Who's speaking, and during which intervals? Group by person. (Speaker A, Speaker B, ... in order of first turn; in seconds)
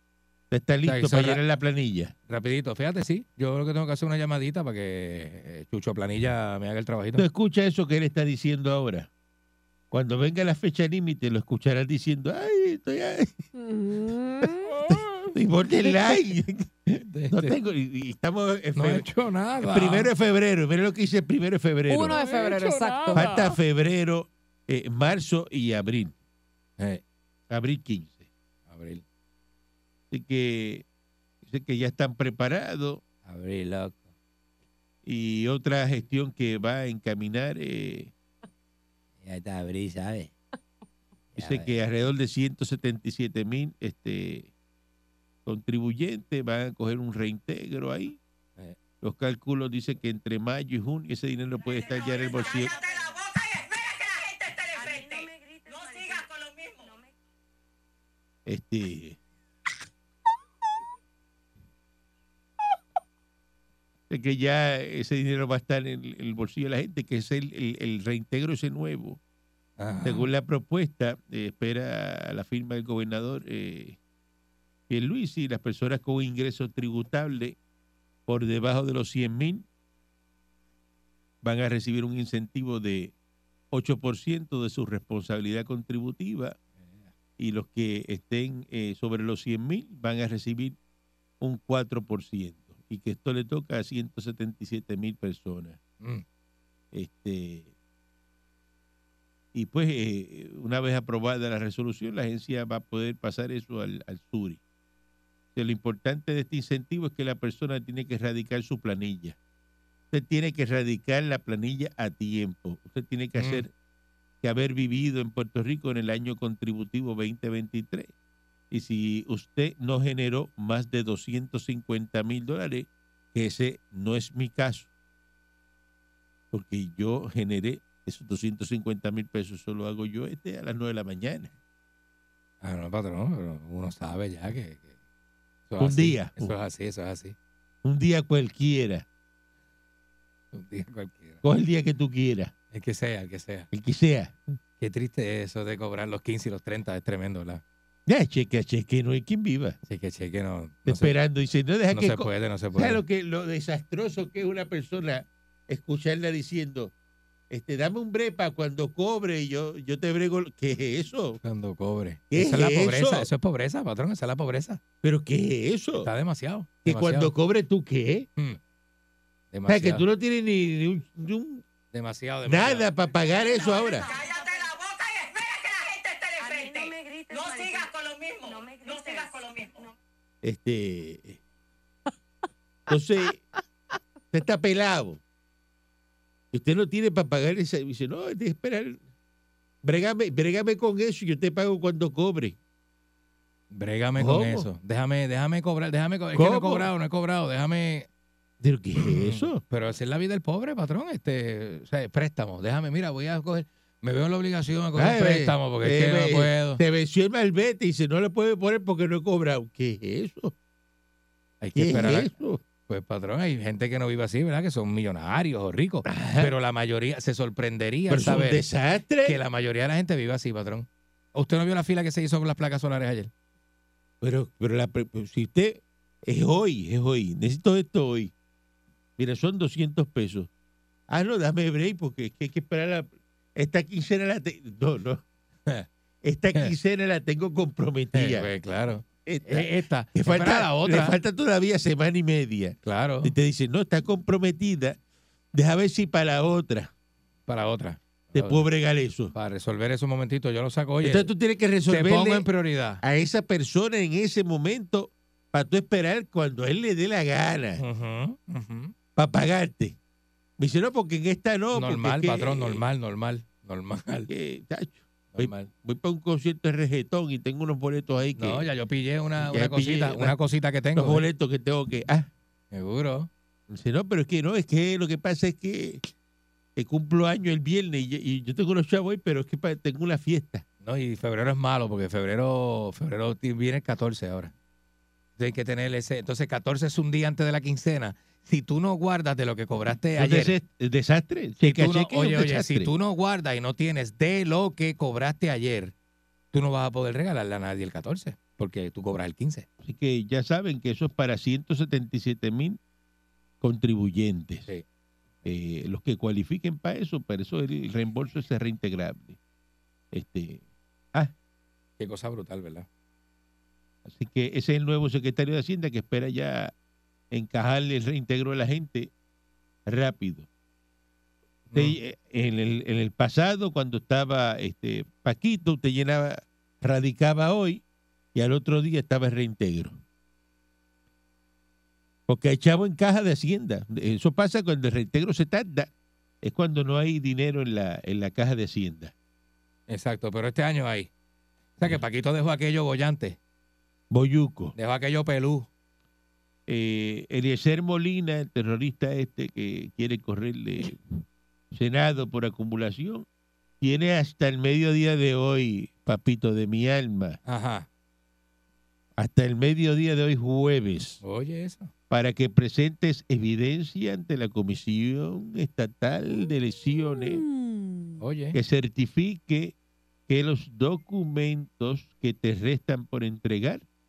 Speaker A: 0.5-2.1, 7.2-9.1, 9.9-13.4, 14.9-19.1, 19.6-22.2, 23.1-26.2, 27.5-28.3, 30.1-30.8, 31.4-33.0, 35.0-38.1, 41.4-44.5, 45.5-48.2, 49.0-52.7, 58.5-59.2, 64.1-69.2, 70.0-74.0, 74.9-77.6, 78.3-79.7, 81.4-83.1, 83.7-86.6, 87.4-90.8, 91.4-95.8, 96.9-97.7, 99.5-104.6, 105.5-109.4, 110.1-113.7, 114.4-118.1, 118.7-124.9, 126.5-131.5, 135.8-136.5, 137.8-139.0, 141.4-142.5, 143.7-144.6, 148.1-149.8, 150.8-156.9, 157.5-161.4, 162.3-163.3, 165.0-166.1, 166.8-168.3, 169.7-171.6, 172.4-174.1, 180.4-181.4, 182.9-183.4, 184.3-185.2, 186.5-189.0, 189.8-192.6, 194.1-194.7, 196.3-196.9, 198.6-199.6, 204.9-210.5, 211.8-212.6, 216.0-216.5, 218.1-219.4, 224.2-228.3, 229.2-230.5, 231.1-235.2, 236.2-238.5, 239.2-245.0, 245.5-246.9, 248.3-249.3, 251.0-252.5, 253.0-257.8, 259.1-260.0, 260.6-262.8, 264.3-268.6, 269.4-270.3, 270.9-272.3, 273.7-276.1, 276.8-280.6, 290.1-292.9, 299.8-302.8, 303.6-304.7, 305.4-309.4, 310.1-310.6, 314.0-316.7, 317.3-319.1, 319.9-320.5, 321.7-327.8, 328.3-330.0, 332.3-335.9, 336.4-339.1, 344.1-344.7, 346.7-351.2, 351.7-353.3, 353.8-357.4, 359.2-361.2, 362.1-367.4, 368.5-369.8, 370.3-373.8
Speaker B: 0.8-1.4, 2.3-7.3, 14.7-15.3, 17.0-17.6, 18.8-20.1, 22.1-23.6, 28.7-29.0, 33.2-34.1, 39.2-40.3, 41.3-41.7, 69.8-70.3, 113.4-113.6, 132.6-134.9, 135.7-137.3, 140.5-141.4, 142.7-143.7, 144.8-147.6, 149.9-151.1, 151.9-153.0, 161.4-164.8, 166.0-167.3, 169.5-170.0, 171.9-172.9, 193.7-198.1, 199.0-206.8, 211.6-212.3, 212.8-218.6, 219.2-223.3, 238.1-241.2, 242.8-243.3, 247.5-248.7, 249.3-251.3, 251.9-253.0, 257.8-258.9, 261.7-264.3, 265.3-265.7, 268.4-271.2, 272.7-273.3, 280.8-284.5, 285.4-290.5, 291.6-295.9, 296.5-299.7, 312.0-312.9, 321.7-321.9, 339.9-341.1, 341.8-343.4, 344.8-345.7, 357.5-357.9, 361.2-361.9, 368.2-368.6
Speaker C: 13.5-14.7, 21.9-23.3, 367.2-368.2
Speaker D: 51.7-57.0, 173.5-179.9